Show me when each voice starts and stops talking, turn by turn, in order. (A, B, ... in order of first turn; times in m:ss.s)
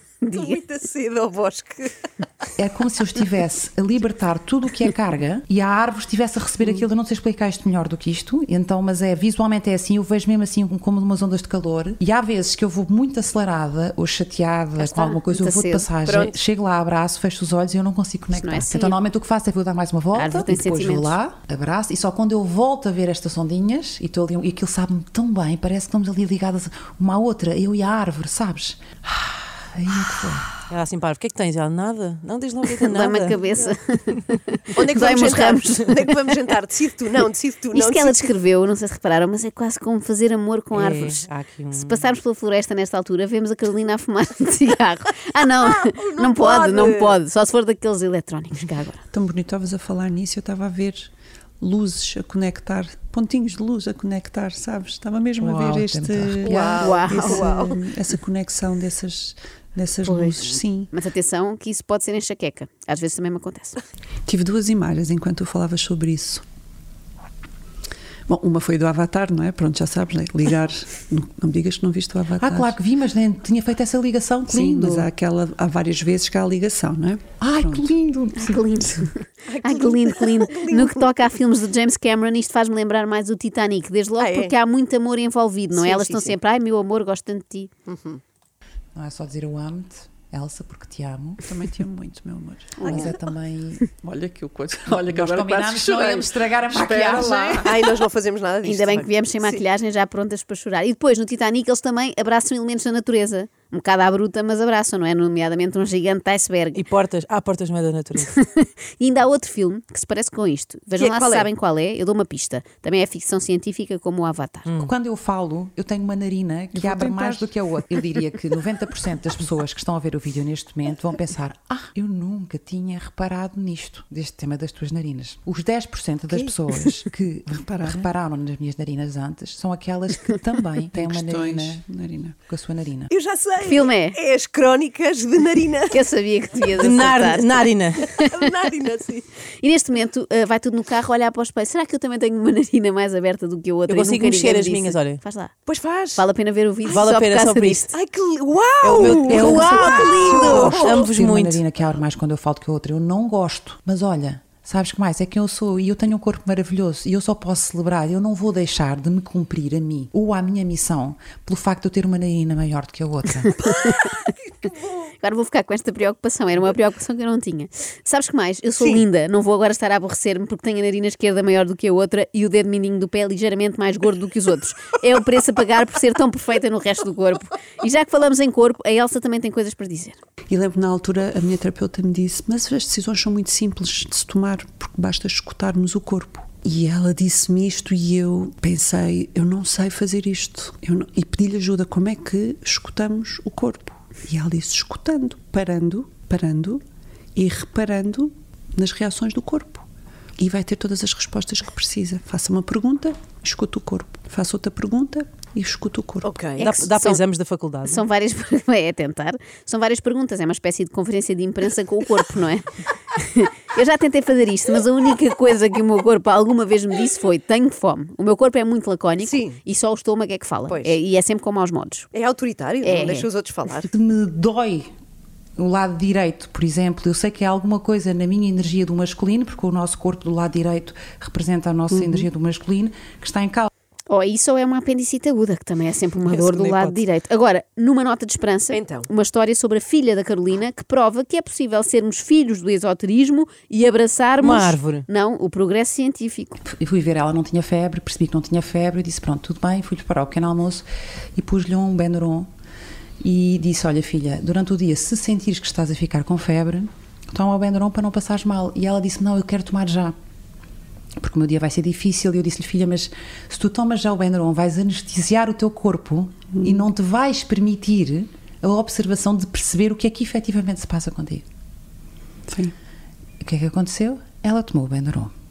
0:00.2-0:00.6 A
0:00.3-0:01.9 B
0:02.6-0:30.5 C
0:14.8-0:15.9 A
0:16.0-0:16.4 B
0:18.3-0:19.0 A
0:20.1-0:21.2 A
0:30.7-0:33.4 D
0:32.8-0:36.1 A
0:34.8-0:38.3 B
0:37.7-0:49.0 A
0:40.7-0:42.1 D
0:45.6-0:47.2 B
0:49.1-1:00.9 E
0:55.4-0:56.9 C
0:56.4-0:57.8 B
0:56.8-0:57.5 A
1:00.0-1:03.8 A
1:04.2-1:06.4 E
1:08.3-1:12.8 E
1:12.4-1:15.1 C
1:14.5-1:17.9 E
1:17.4-1:19.0 C
1:18.4-1:27.7 A
1:19.5-1:21.0 B
1:24.2-1:24.5 B
1:25.8-1:26.4 B
1:27.9-1:28.2 B
1:28.9-1:31.4 C
1:31.4-1:32.9 E
1:32.8-1:33.9 C
1:32.8-1:33.1 B
1:34.0-1:37.7 E
1:34.9-1:37.9 C
1:37.6-1:39.6 B
1:38.6-1:46.8 A
1:46.7-1:48.4 D
1:48.3-1:54.7 A
1:51.0-1:51.5 B
1:54.6-1:54.9 D
1:54.8-2:11.8 C
1:56.7-1:57.5 E
2:07.7-2:08.1 E
2:10.9-2:12.4 E
2:12.5-2:13.1 C
2:13.1-2:16.0 B
2:13.6-2:14.2 A
2:15.9-2:18.3 A
2:16.8-2:18.2 D
2:18.2-2:19.3 B
2:19.6-2:25.5 A
2:23.9-2:25.2 D
2:25.7-2:26.2 B
2:26.2-2:27.9 A
2:26.8-2:27.9 D
2:27.9-2:31.0 B
2:28.8-2:31.6 D
2:28.9-2:43.5 C
2:29.3-2:30.1 A
2:43.6-2:44.1 A
2:44.6-2:44.9 B
2:45.1-3:00.2 A
3:00.5-3:16.8 E
3:17.4-3:19.8 E
3:20.4-3:26.3 E
3:26.2-3:26.8 B
3:26.6-3:27.2 A
3:26.6-3:28.0 D
3:27.8-3:42.1 A
3:39.2-3:39.6 B
3:40.7-3:41.0 B
3:42.1-3:43.9 B
3:42.8-3:43.3 A
3:43.8-3:44.9 C
3:45.6-3:53.7 C
3:54.1-4:06.6 A
3:56.2-3:57.0 D
3:58.7-3:59.1 B
4:04.4-4:05.0 D
4:06.6-4:10.9 C
4:11.4-4:12.5 C
4:13.2-4:20.1 C
4:21.2-4:31.4 C
4:26.6-4:26.9 E
4:32.5-4:32.7 E
4:33.4-4:35.3 C